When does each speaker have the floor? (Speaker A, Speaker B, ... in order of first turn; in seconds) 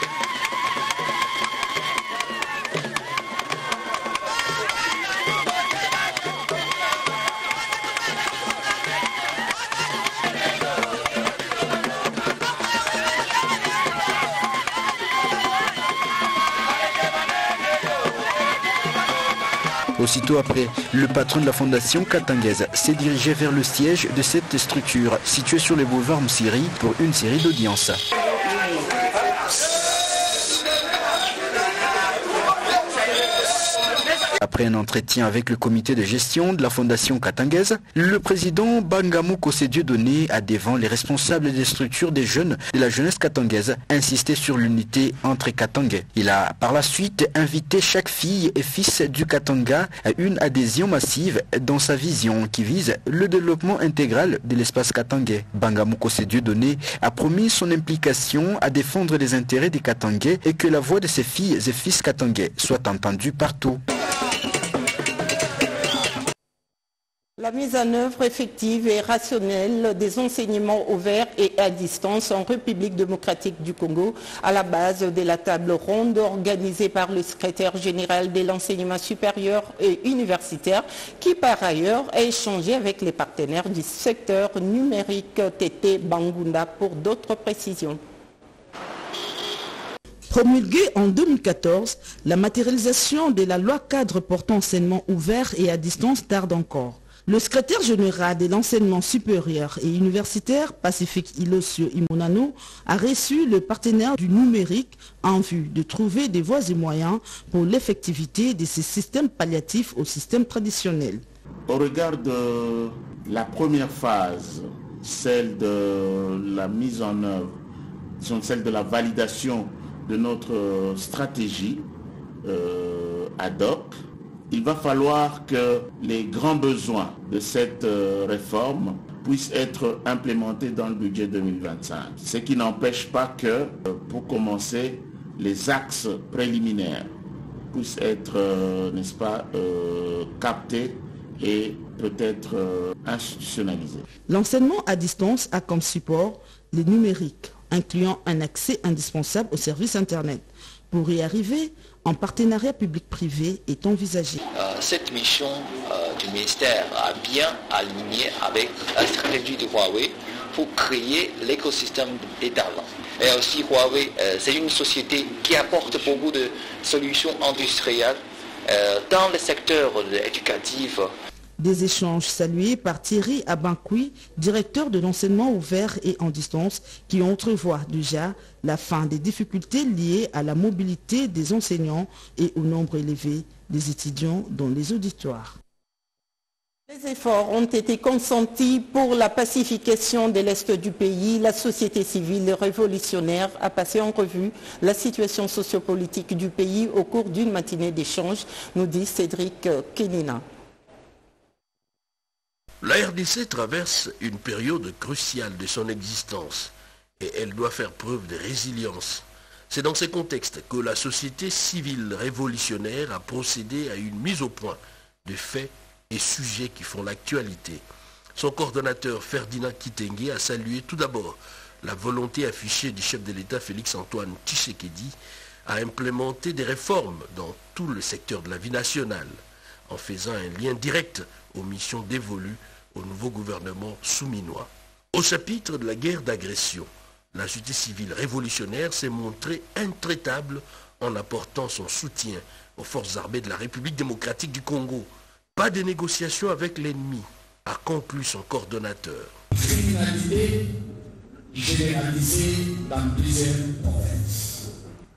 Speaker A: 20.0-28.0, 34.4-63.8
Speaker B: 67.4-88.0, 186.9-200.4
Speaker C: 90.3-111.2, 144.3-154.4, 171.6-185.5
Speaker D: 111.7-117.5, 118.2-121.9, 122.4-123.9, 124.5-137.1, 137.7-144.1
Speaker E: 154.6-171.1
Speaker F: 202.8-217.8, 218.4-225.1, 225.7-229.4, 229.9-249.3
Speaker G: 249.5-250.6, 251.5-254.6